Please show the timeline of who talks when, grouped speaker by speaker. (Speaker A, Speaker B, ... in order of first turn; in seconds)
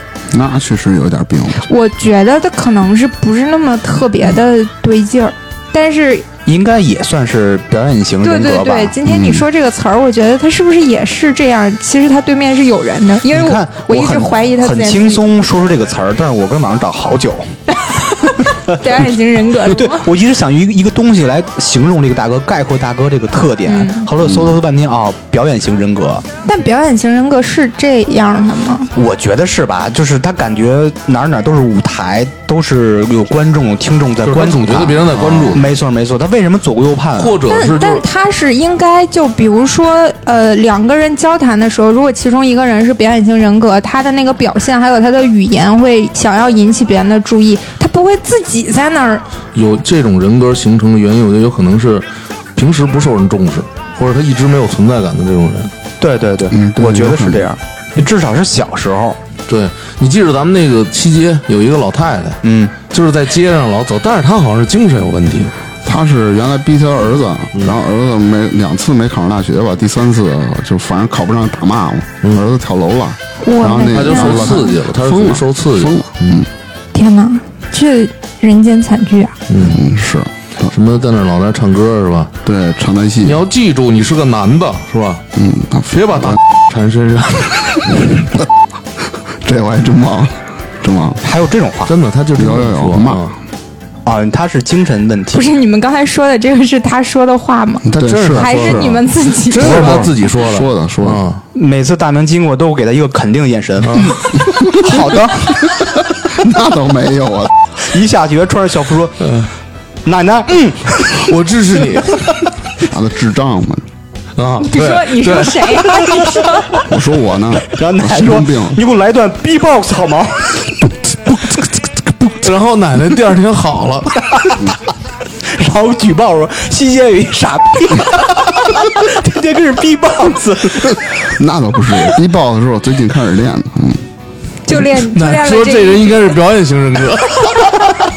Speaker A: 0.3-1.7, 9.1-9.4, 24.2-24.5, 56.5-57.5, 65.8-76.5, 79.6-80.7, 82.4-83.4, 85.3-86.4, 89.4-91.2, 92.3-93.2, 97.8-101.2, 104.4-107.5, 112.8-113.8, 116.8-118.8, 131.2-134.0
Speaker B: 1.6-6.3, 8.2-15.2, 17.9-20.1, 23.6-24.1, 26.4-28.9, 37.4-49.2, 73.4-74.7, 76.9-79.3, 95.3-99.9, 114.6-116.7, 134.7-136.3
Speaker C: 6.5-8.9, 13.3-17.5, 18.4-18.8, 19.6-26.2, 28.9-37.4, 56.0-59.2, 62.4-62.8, 91.2-91.9, 94.0-95.5, 101.5-105.9, 107.8-109.3, 110.0-111.3, 112.1-112.4, 116.2-116.8, 117.7-120.8, 124.2-124.7, 125.4-131.3
Speaker D: 34.2-35.7, 37.1-38.0, 49.5-55.7, 59.5-65.5, 73.9-76.4, 79.5-79.8, 80.7-82.3, 83.2-85.2, 85.9-88.3, 91.8-93.3, 98.0-101.4, 103.8-104.2, 109.2-109.5, 111.2-112.3, 114.3-116.1, 122.3-124.2, 134.8-137.9